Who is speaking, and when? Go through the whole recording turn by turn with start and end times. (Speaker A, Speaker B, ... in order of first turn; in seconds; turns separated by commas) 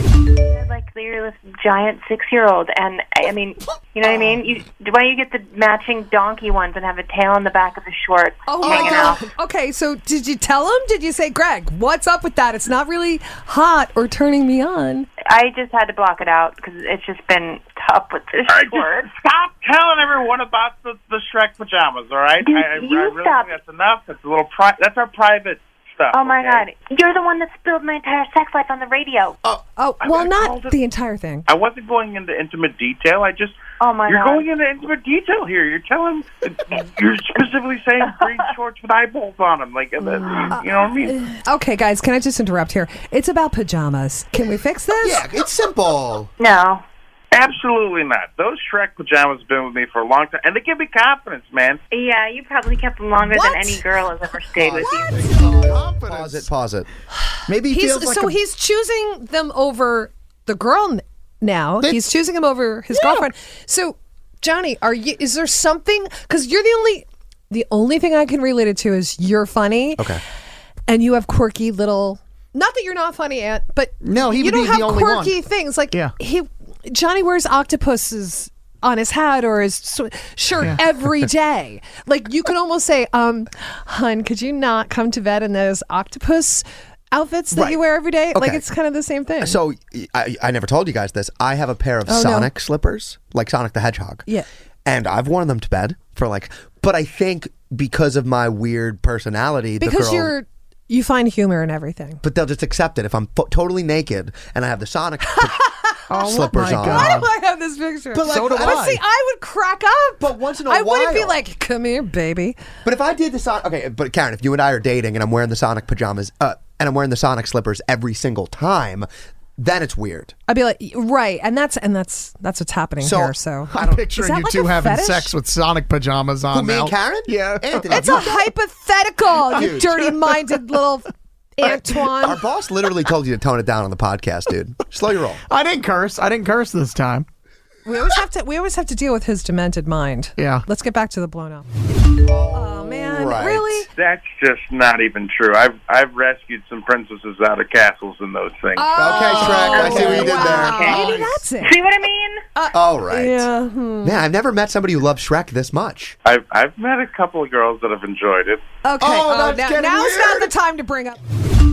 Speaker A: 0.5-9.2, Speaker B: 4.0-4.4, Speaker C: 8.5-15.1, Speaker D: 8.7-9.1, Speaker A: 15.3-19.1, Speaker E: 18.5-26.6, Speaker A: 22.4-23.6, Speaker A: 26.1-29.4, Speaker C: 29.8-31.5, Speaker E: 30.1-30.5, Speaker E: 31.5-33.6, Speaker A: 33.8-34.5, Speaker E: 34.1-41.2, Speaker A: 38.0-38.4, Speaker A: 40.2-40.5, Speaker C: 40.5-45.2, Speaker B: 45.0-46.3, Speaker A: 46.4-46.8, Speaker E: 47.4-51.8, Speaker A: 51.9-55.1, Speaker C: 53.3-53.8, Speaker D: 54.8-56.5, Speaker C: 54.8-55.3, Speaker B: 55.4-56.9, Speaker D: 57.5-58.4, Speaker C: 57.7-70.1, Speaker D: 62.9-63.3, Speaker C: 70.9-89.6, Speaker D: 74.0-75.4, Speaker B: 87.5-87.8, Speaker B: 88.3-88.6, Speaker B: 89.4-94.2, Speaker C: 92.1-92.5, Speaker B: 94.8-100.3, Speaker C: 99.8-102.2, Speaker B: 102.2-105.6, Speaker C: 105.3-112.6, Speaker D: 106.1-107.3, Speaker B: 106.1-107.1, Speaker B: 108.1-108.8, Speaker D: 108.2-109.0, Speaker B: 110.2-111.4, Speaker B: 112.8-119.1, Speaker B: 119.6-120.3, Speaker C: 120.5-125.3, Speaker B: 123.0-124.0, Speaker D: 123.7-128.2, Speaker B: 126.5-128.5, Speaker C: 127.9-132.4, Speaker B: 129.6-130.0, Speaker B: 132.2-135.4, Speaker D: 135.5-137.3, Speaker C: 137.8-141.7, Speaker D: 140.4-140.6, Speaker B: 142.2-143.9, Speaker C: 142.5-143.9, Speaker E: 144.0-148.9, Speaker C: 148.8-151.8, Speaker B: 148.9-151.1, Speaker D: 149.2-151.3, Speaker A: 149.5-152.4, Speaker C: 152.6-154.2, Speaker B: 152.7-153.5, Speaker B: 154.0-156.2, Speaker E: 156.3-158.6, Speaker C: 158.8-161.2, Speaker B: 159.0-160.5